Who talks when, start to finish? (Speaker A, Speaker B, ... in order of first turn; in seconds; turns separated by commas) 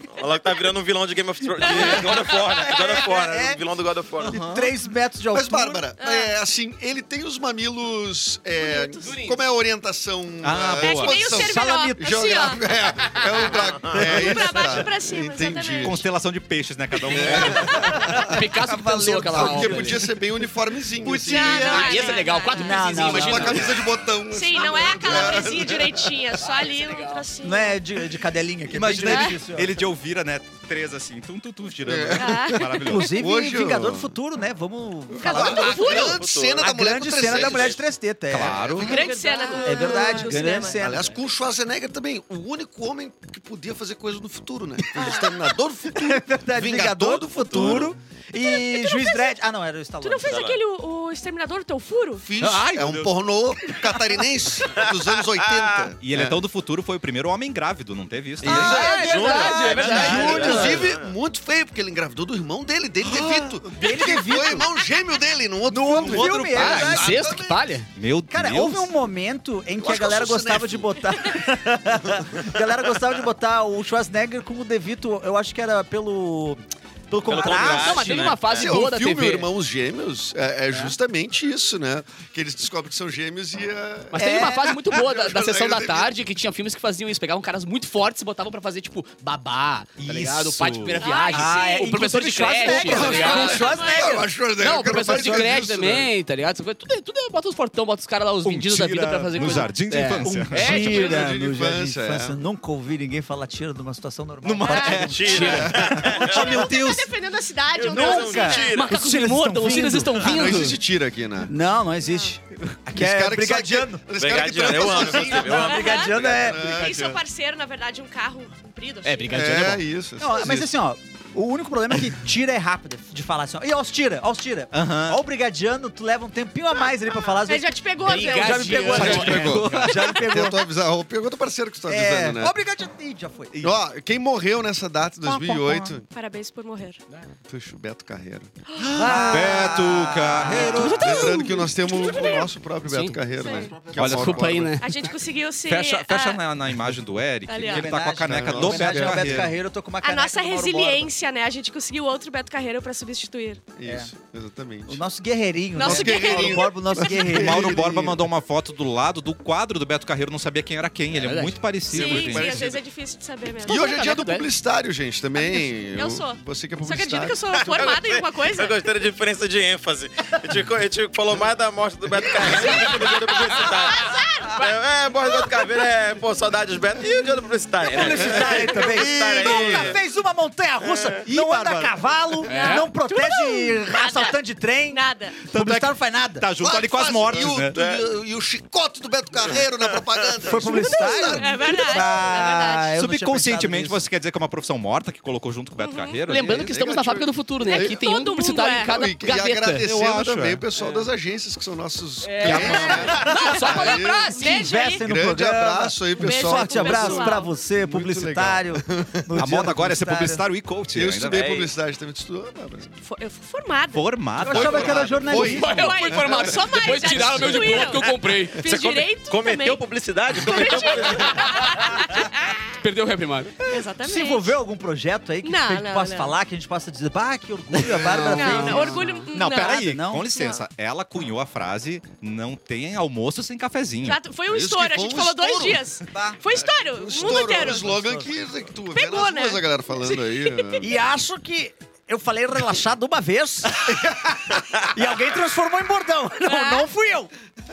Speaker A: 0.2-4.3, Speaker B: 1.6-3.6, Speaker C: 1.6-2.2, Speaker D: 4.3-4.7, Speaker B: 4.3-5.9, Speaker E: 5.3-16.0, Speaker C: 6.0-6.3, Speaker C: 8.6-9.2, Speaker F: 9.0-9.4, Speaker D: 10.4-11.3, Speaker C: 10.8-12.6, Speaker B: 11.3-12.0, Speaker A: 13.5-14.1, Speaker C: 14.0-16.0, Speaker D: 15.8-18.0, Speaker E: 17.1-18.4, Speaker B: 17.5-20.2, Speaker F: 18.1-20.0, Speaker E: 19.3-22.1, Speaker B: 21.0-23.7, Speaker C: 21.2-23.5, Speaker F: 21.3-23.8, Speaker E: 22.9-26.2, Speaker C: 24.3-27.8, Speaker F: 26.5-27.2, Speaker B: 27.4-29.8, Speaker D: 28.7-33.2, Speaker E: 28.8-29.1, Speaker C: 29.1-29.4, Speaker E: 31.8-34.1, Speaker C: 32.2-33.0, Speaker B: 32.8-35.9, Speaker E: 35.1-37.8, Speaker C: 35.2-36.2, Speaker A: 35.4-36.7, Speaker B: 36.6-41.1, Speaker A: 37.3-37.8, Speaker D: 38.3-39.1, Speaker C: 38.6-40.9, Speaker F: 38.8-39.8, Speaker E: 40.3-47.9, Speaker C: 45.0-45.3, Speaker B: 45.9-50.4, Speaker C: 48.5-49.3, Speaker C: 50.0-52.3, Speaker A: 50.2-50.6, Speaker E: 52.2-56.4, Speaker D: 52.4-53.2, Speaker A: 54.7-55.9, Speaker D: 56.0-59.0, Speaker B: 58.4-60.9, Speaker E: 58.4-59.0, Speaker F: 58.4-60.6, Speaker A: 58.8-61.1, Speaker E: 59.5-67.8, Speaker D: 59.8-60.7, Speaker B: 63.1-64.7, Speaker B: 65.7-67.2, Speaker D: 66.0-67.1, Speaker F: 66.5-67.9, Speaker D: 68.0-68.9, Speaker B: 68.3-78.4, Speaker E: 69.8-71.3, Speaker A: 77.2-78.7, Speaker F: 77.6-79.5, Speaker E: 78.5-84.3, Speaker F: 84.1-93.6, Speaker B: 84.2-84.8, Speaker E: 84.9-86.1, Speaker D: 90.0-91.0, Speaker C: 90.9-92.0, Speaker B: 91.3-94.3, Speaker C: 92.5-94.2, Speaker E: 92.8-96.1, Speaker F: 94.6-101.2, Speaker D: 98.4-100.9, Speaker C: 99.4-99.7, Speaker B: 100.2-107.1, Speaker E: 100.6-102.3, Speaker D: 104.4-105.9, Speaker C: 104.6-108.8, Speaker A: 105.0-106.7, Speaker F: 105.2-105.8, Speaker A: 107.7-108.9, Speaker B: 107.8-110.7, Speaker F: 108.7-110.8, Speaker E: 110.2-111.5, Speaker B: 111.5-114.0, Speaker C: 112.0-112.3, Speaker E: 112.9-117.2, Speaker A: 114.2-116.5, Speaker B: 114.6-116.8, Speaker C: 115.6-119.7, Speaker F: 119.0-119.8, Speaker E: 119.3-120.7, Speaker B: 120.2-130.6, Speaker D: 124.7-125.2, Speaker C: 127.3-129.1, Speaker F: 128.0-129.8, Speaker E: 128.9-132.5, Speaker D: 129.1-130.0, Speaker B: 131.9-133.7, Speaker E: 133.6-136.0, Speaker B: 135.2-136.0, Speaker C: 136.1-137.0, Speaker E: 137.5-144.8, Speaker C: 138.7-139.6, Speaker B: 138.9-141.0, Speaker D: 139.0-141.4, Speaker C: 140.5-142.5, Speaker F: 142.8-143.2, Speaker C: 143.4-143.9, Speaker B: 143.4-144.3, Speaker D: 143.8-144.6, Speaker F: 144.0-144.9, Speaker C: 144.8-146.5, Speaker D: 145.7-149.5, Speaker C: 147.5-147.9, Speaker B: 147.7-151.1, Speaker E: 148.2-149.5, Speaker C: 150.0-153.6, Speaker E: 153.8-155.0, Speaker B: 153.8-154.1, Speaker B: 154.9-158.1, Speaker C: 155.7-157.1, Speaker E: 155.8-158.2, Speaker D: 157.2-162.6, Speaker F: 161.1-161.6, Speaker E: 161.9-162.8, Speaker C: 161.9-164.1, Speaker E: 163.6-167.4, Speaker F: 163.7-164.5, Speaker C: 165.4-168.8, Speaker A: 167.6-180.0, Speaker E: 172.4-172.8, Speaker C: 172.6-174.7, Speaker B: 177.8-186.5, Speaker E: 178.2-179.9, Speaker A: 180.8-181.2, Speaker D: 181.3-182.0, Speaker C: 182.4-184.4, Speaker F: 182.5-182.9, Speaker C: 184.9-185.4, Speaker D: 185.4-187.8, Speaker E: 186.6-192.0, Speaker A: 187.7-188.1, Speaker A: 189.5-190.3, Speaker B: 190.4-194.0, Speaker C: 190.6-192.9, Speaker D: 192.9-196.8, Speaker C: 195.8-196.2, Speaker F: 196.3-199.9, Speaker E: 196.4-198.0, Speaker C: 197.6-198.9, Speaker E: 198.9-204.3, Speaker D: 199.8-200.6, Speaker F: 200.8-201.1, Speaker F: 202.2-204.7, Speaker D: 202.4-203.3, Speaker B: 203.1-203.5, Speaker C: 203.3-205.1, Speaker B: 204.4-210.4, Speaker E: 205.0-209.3, Speaker C: 206.2-207.5, Speaker D: 209.3-211.5, Speaker E: 210.9-212.9, Speaker A: 211.3-211.7, Speaker C: 213.0-214.3, Speaker D: 213.9-215.2, Speaker B: 214.3-215.9, Speaker E: 214.4-217.8, Speaker F: 215.3-218.6, Speaker C: 215.3-222.6, Speaker A: 218.6-221.8, Speaker F: 221.3-221.6, Speaker F: 222.8-223.5, Speaker C: 223.7-224.5, Speaker B: 224.0-230.3, Speaker C: 225.4-226.3, Speaker F: 228.0-229.2, Speaker C: 228.2-230.6, Speaker D: 229.3-234.2, Speaker C: 234.0-237.9, Speaker E: 234.5-235.8, Speaker B: 236.1-236.4, Speaker E: 236.4-240.9, Speaker B: 237.5-238.3, Speaker C: 238.9-240.8, Speaker B: 240.8-247.3, Speaker C: 246.4-246.9